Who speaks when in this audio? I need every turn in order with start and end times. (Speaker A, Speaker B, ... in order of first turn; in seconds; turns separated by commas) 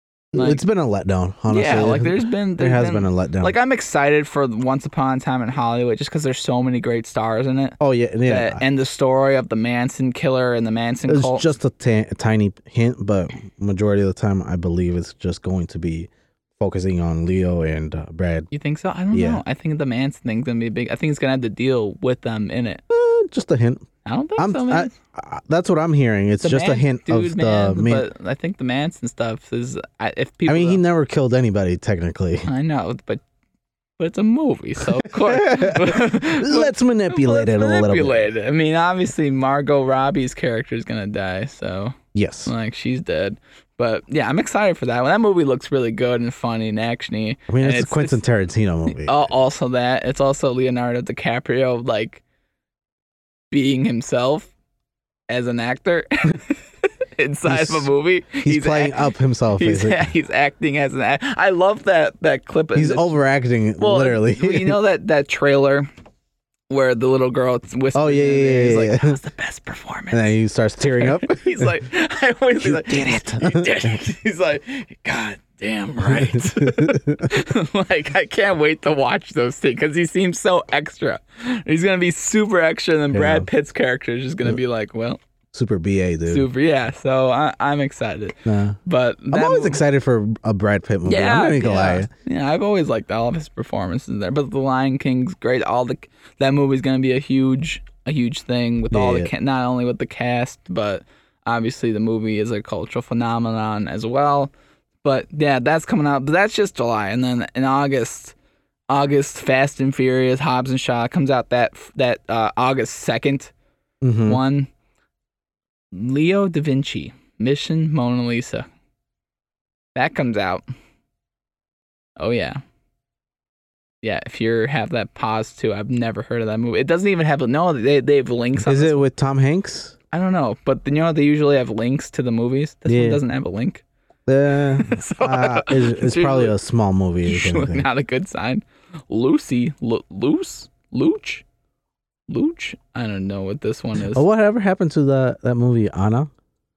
Speaker A: 0.3-3.5, Speaker B: 0.3-0.6, Speaker B: 1.5-11.5, Speaker A: 7.8-8.6, Speaker A: 11.1-18.5, Speaker B: 18.5-22.8, Speaker A: 19.1-19.4, Speaker A: 22.9-23.8, Speaker B: 24.0-24.9, Speaker A: 24.4-28.1, Speaker B: 26.4-30.8, Speaker A: 30.5-32.5, Speaker B: 32.5-33.2, Speaker B: 34.0-48.2, Speaker A: 35.0-38.2, Speaker A: 42.1-42.5, Speaker A: 47.5-49.2, Speaker B: 48.9-52.2, Speaker B: 53.5-54.5, Speaker B: 55.3-56.6, Speaker B: 57.2-63.1, Speaker A: 57.5-57.9, Speaker A: 58.4-60.1, Speaker A: 62.7-64.8, Speaker B: 63.8-65.9, Speaker B: 66.7-70.3, Speaker A: 67.9-69.2, Speaker A: 70.1-71.7, Speaker B: 71.0-85.2, Speaker A: 72.6-74.0, Speaker A: 76.0-77.3, Speaker A: 83.1-83.5, Speaker A: 85.5-86.5, Speaker B: 86.3-89.8, Speaker A: 88.5-88.8, Speaker A: 89.3-92.1, Speaker B: 91.0-104.5, Speaker A: 98.9-99.3, Speaker B: 105.0-108.3, Speaker B: 108.9-113.5, Speaker A: 114.0-114.4, Speaker B: 114.2-114.7, Speaker B: 115.9-118.7, Speaker B: 119.9-120.6, Speaker B: 122.2-122.6, Speaker B: 124.0-129.0, Speaker A: 128.6-129.9, Speaker B: 130.1-133.8, Speaker A: 132.9-133.2, Speaker A: 134.3-137.9, Speaker B: 134.7-136.6, Speaker B: 137.2-141.4, Speaker B: 142.3-144.2, Speaker A: 144.1-146.3